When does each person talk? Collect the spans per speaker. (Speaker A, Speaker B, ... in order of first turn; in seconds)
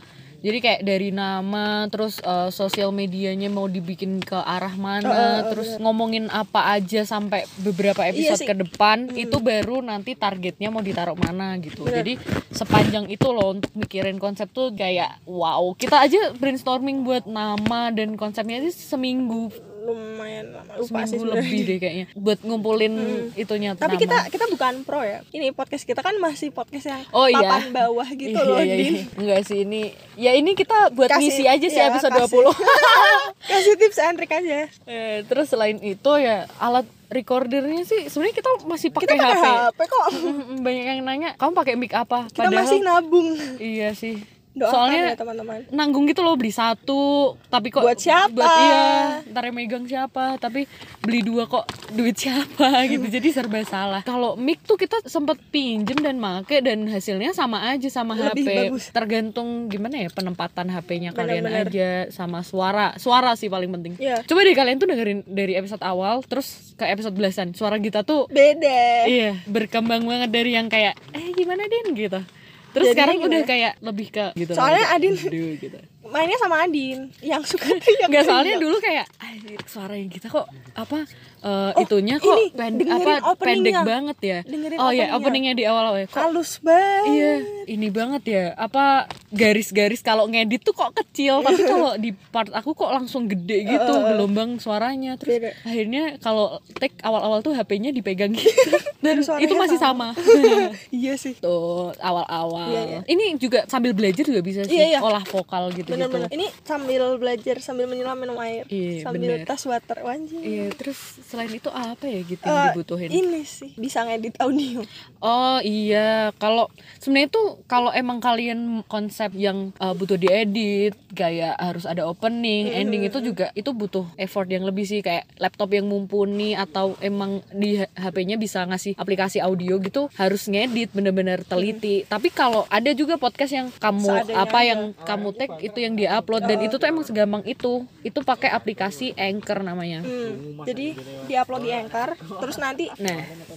Speaker A: 0.4-19.5, 20.8-24.3, 27.1-33.6, 34.9-42.9, 43.6-45.2, 45.7-68.3, 69.0-75.9, 77.6-86.3, 87.0-100.8, 101.4-106.3, 108.7-109.5, 110.4-113.2, 115.2-140.1, 143.0-143.3
Speaker B: 5.0-5.8, 8.1-8.5, 9.1-9.4, 11.8-12.1, 19.6-21.7, 23.0-29.1, 31.1-34.7, 39.0-40.4, 42.4-43.6, 44.6-45.7, 47.8-49.2, 58.1-58.9, 61.1-61.7, 64.0-64.3, 68.3-69.2, 72.8-73.5, 74.5-75.3, 76.0-78.7, 81.8-83.9, 84.5-85.4, 86.1-87.7, 91.4-91.8, 93.7-94.3, 95.2-95.6, 98.6-101.4, 102.7-103.0, 104.7-105.1, 105.9-110.7, 112.4-114.9, 122.6-123.4, 134.0-134.9, 136.4-136.8, 140.0-143.0